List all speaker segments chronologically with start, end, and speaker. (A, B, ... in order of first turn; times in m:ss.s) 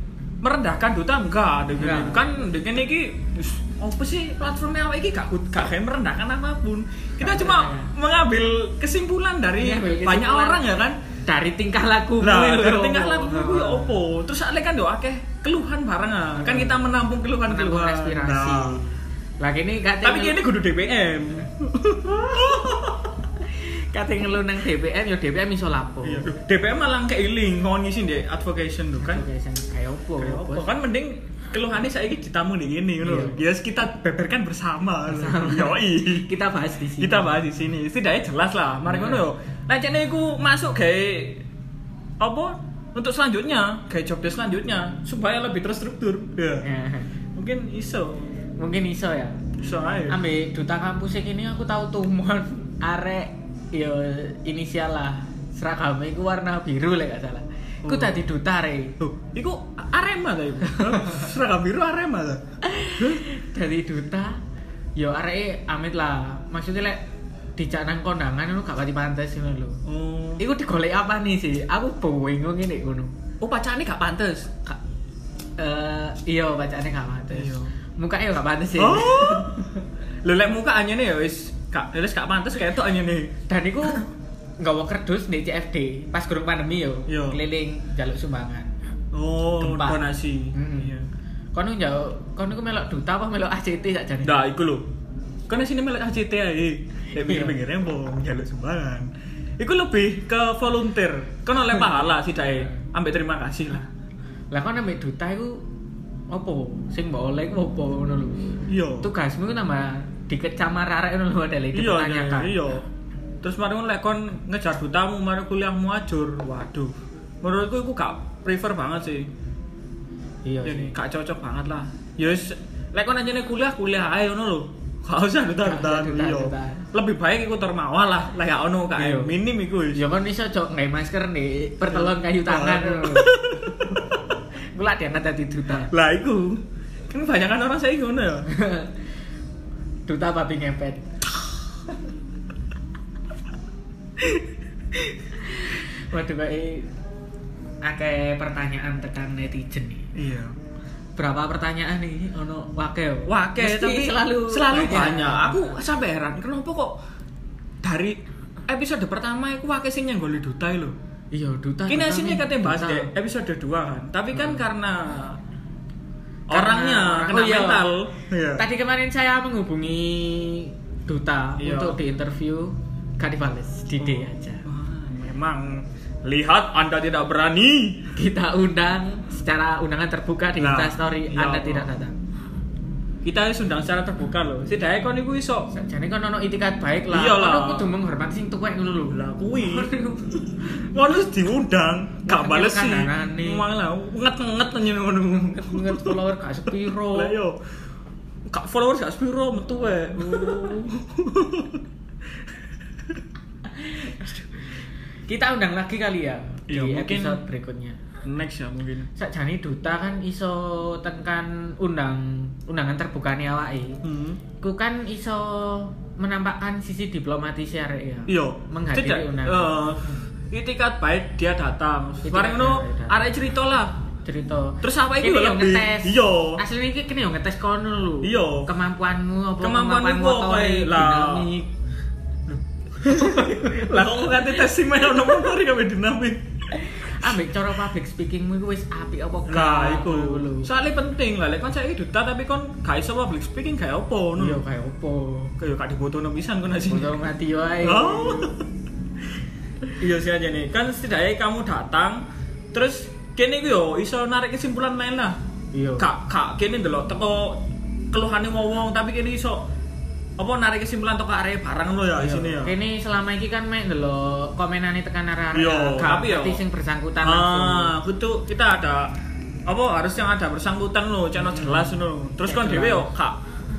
0:00.4-0:11.0 A
0:01.8-0:02.2 B
0:07.2-0:07.9 B
0:09.6-0:10.6 B
0:11.3-0:14.0 B
0:12.2-0:18.8 A
0:16.4-0:16.9 B
0:17.5-0:20.4 B
0:20.0-0:23.1 A
0:23.5-0:26.3 B
0:26.0-0:29.2 A
0:29.0-0:30.7 B
0:30.2-0:36.3 A
0:33.0-0:33.4 B
0:35.1-0:37.3 B
0:37.0-0:41.4 A
0:38.9-0:39.2 B
0:42.2-0:46.6 A
0:46.6-0:47.1 B
0:47.4-0:48.3 A
0:48.6-0:49.4 B
0:49.6-0:50.2 A
0:50.1-0:59.0 B
0:57.8-0:58.3 A
0:59.0-1:02.4 A
1:00.7-1:01.2 B
1:02.6-1:04.4 B
1:03.0-1:03.2 A
1:05.0-1:07.0 B
1:07.6-1:09.8 B
1:09.8-1:10.4 A
1:10.4-1:13.2 B
1:13.4-1:14.6 A
1:15.6-1:19.8 B
1:17.3-1:17.7 A
1:18.8-1:19.7 A
1:20.2-1:23.3 A
1:23.5-1:28.8 B
1:27.1-1:27.4 A
1:29.1-1:31.1 A
1:29.6-1:30.0 B
1:30.5-1:30.9 B
1:31.5-1:34.4 B
1:34.2-1:34.9 A
1:35.5-1:43.9 A
1:37.2-1:37.6 B
1:44.5-1:45.7 B
1:46.3-1:52.8 B
1:48.7-1:49.1 A
1:51.7-1:52.8 A
1:53.4-1:59.3 A
2:00.4-2:00.9 B
2:00.6-2:10.0 A
2:05.6-2:06.9 B
2:09.0-2:09.4 B
2:09.9-2:13.4 B
2:11.9-2:14.2 A
2:14.7-2:15.9 B
2:15.9-2:18.5 A
2:18.5-2:18.9 B
2:20.1-2:21.0 B
2:25.1-2:26.9 B
2:27.8-2:30.1 B
2:30.2-2:30.6 A
2:31.2-2:35.7 B
2:33.3-2:37.0 A
2:37.8-2:41.0 A
2:41.3-2:43.1 B
2:41.9-2:45.4 A
2:44.4-2:44.6 B
2:46.5-2:48.6 A
2:46.5-2:47.9 B
2:48.6-2:54.6 B
2:51.6-2:52.0 A
2:54.0-2:58.1 A
2:58.2-3:02.2 B
3:00.6-3:01.9 A
3:03.2-3:05.7 A
3:05.7-3:10.8 B
3:07.1-3:07.9 A
3:09.1-3:09.9 A
3:10.8-3:17.6 A
3:12.2-3:13.6 B
3:15.3-3:17.4 B
3:18.5-3:21.8 A
3:20.2-3:20.7 B
3:23.8-3:24.2 B
3:25.3-3:28.0 B
3:26.7-3:27.4 A
3:28.2-3:29.1 A
3:29.2-3:34.0 B
3:34.0-3:34.4 A
3:34.6-3:40.2 B
3:38.3-3:44.0 A
3:42.2-3:43.2 B
3:44.2-3:51.7 B
3:44.8-3:46.6 A
3:48.2-3:48.7 A
3:49.6-3:51.5 A
3:52.5-3:56.4 A
3:53.0-3:54.4 B
3:56.8-4:00.7 B
3:59.5-4:04.6 A
4:04.4-4:05.5 B
4:05.6-4:07.1 A
4:06.9-4:08.5 B
4:07.8-4:08.6 A
4:10.0-4:15.4 A
4:15.7-4:16.1 B
4:16.0-4:19.7 A
4:20.4-4:22.7 A
4:22.2-4:28.0 B
4:25.5-4:26.6 A
4:27.2-4:29.1 A
4:29.7-4:33.4 A
4:31.4-4:33.1 B